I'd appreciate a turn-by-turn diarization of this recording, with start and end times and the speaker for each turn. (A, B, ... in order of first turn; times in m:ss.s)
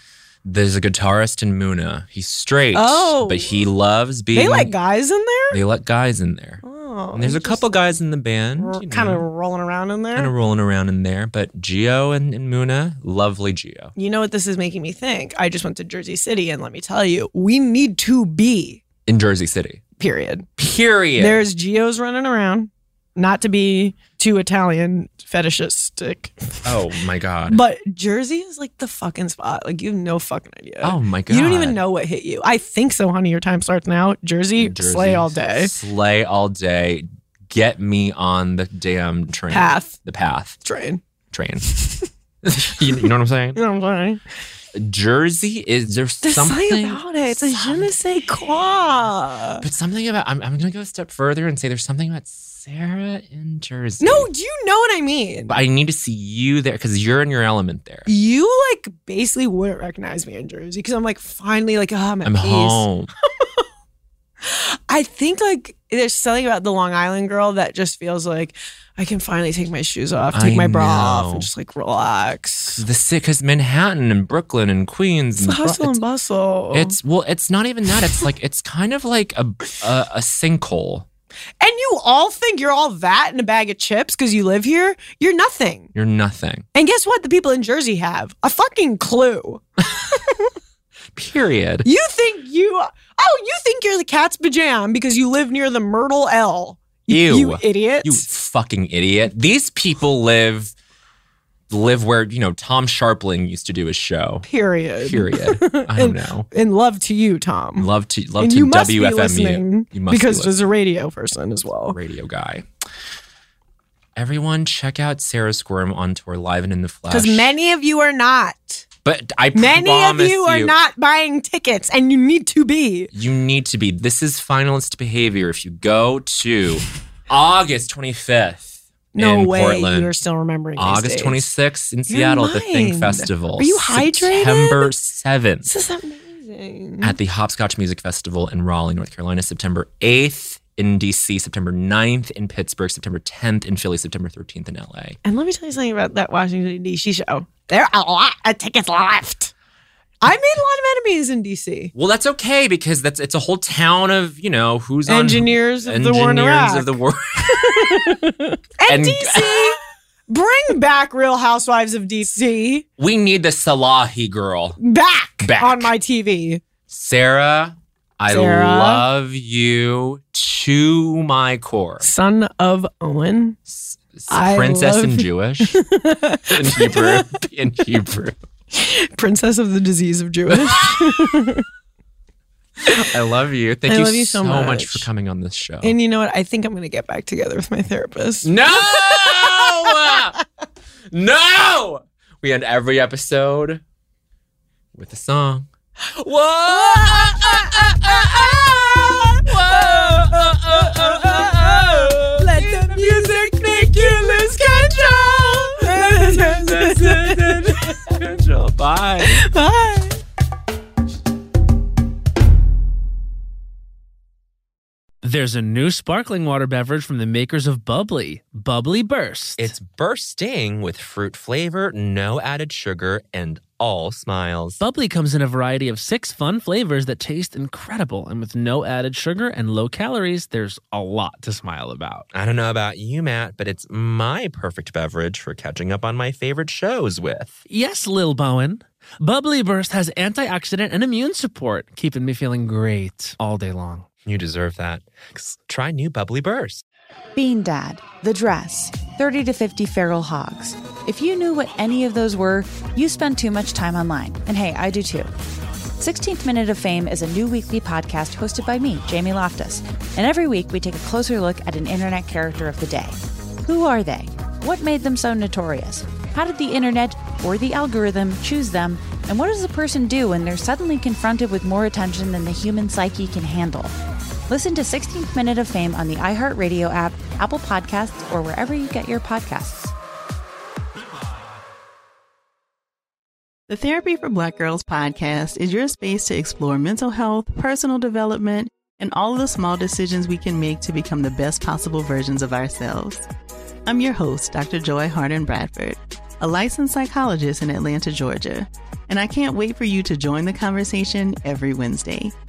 0:00.4-0:04.7 A
0:02.7-0:03.6 B
0:04.3-0:05.6 B
0:05.5-0:06.6 A
0:06.6-0:08.0 B
0:07.1-0:09.3 A
0:08.6-0:10.3 B
0:10.2-0:13.9 A
0:14.0-0:18.8 B
0:19.1-0:19.8 A
0:20.0-0:20.5 B
0:20.6-0:21.4 A
0:21.2-0:26.8 B
0:26.6-0:27.6 A
0:27.5-0:35.7 B
0:30.8-0:31.8 A
0:34.6-0:40.6 A
0:39.5-0:40.0 B
0:40.6-0:41.0 B
0:41.3-0:41.7 A
0:41.7-0:42.1 B
0:42.4-0:43.6 A
0:43.6-0:44.2 B
0:44.8-0:48.0 A
0:46.2-0:49.6 B
0:49.6-0:54.3 A
0:54.0-0:55.6 B
0:55.5-0:58.1 A
0:58.1-1:02.9 B
1:02.2-1:03.1 A
1:03.4-1:03.6 B
1:04.4-1:12.8 B
1:10.3-1:11.5 A
1:12.8-1:16.0 A
1:15.4-1:17.0 B
1:16.7-1:21.1 A
1:21.6-1:25.9 B
1:26.0-1:26.7 A
1:26.7-1:30.5 B
1:31.1-1:31.9 A
1:31.8-1:38.3 B
1:37.1-1:40.8 A
1:41.7-1:44.5 A
1:44.4-1:52.0 B
1:45.0-1:46.5 A
1:47.8-1:50.7 A
1:51.9-1:52.7 A
1:54.2-1:57.5 A
1:57.1-1:58.8 B
1:59.0-2:00.8 A
1:59.6-2:03.1 B
2:03.1-2:10.1 A
2:09.1-2:11.5 B
2:10.8-2:15.7 A
2:12.1-2:14.9 B
2:15.7-2:17.2 B
2:17.0-2:25.2 A
2:25.2-2:29.5 B
2:30.2-2:31.9 B
2:32.0-2:38.2 A
2:35.1-2:36.9 B
2:37.5-2:42.9 B
2:38.9-2:39.8 A
2:43.0-2:44.8 A
2:44.8-2:46.6 B
2:45.4-2:45.9 A
2:46.9-2:52.1 A
2:48.3-2:49.0 B
2:52.0-2:53.6 B
2:53.7-2:55.8 A
2:54.3-2:57.4 B
2:56.5-2:58.4 A
2:58.7-3:01.6 B
3:00.5-3:01.5 A
3:02.8-3:06.0 A
3:03.9-3:05.1 B
3:05.8-3:10.3 B
3:08.4-3:10.4 A
3:11.1-3:13.8 A
3:14.9-3:29.5 A
3:16.7-3:28.1 B
3:29.2-3:30.2 B
3:35.2-3:39.7 C
3:39.6-3:44.8 A
3:44.8-3:52.3 C
3:52.3-3:57.6 A
3:57.7-4:04.1 C
4:04.3-4:06.8 A
4:07.4-4:15.3 D
4:16.0-4:34.0 D
4:34.5-4:39.9 D
4:43.7-4:53.2 E
4:53.9-5:02.4 E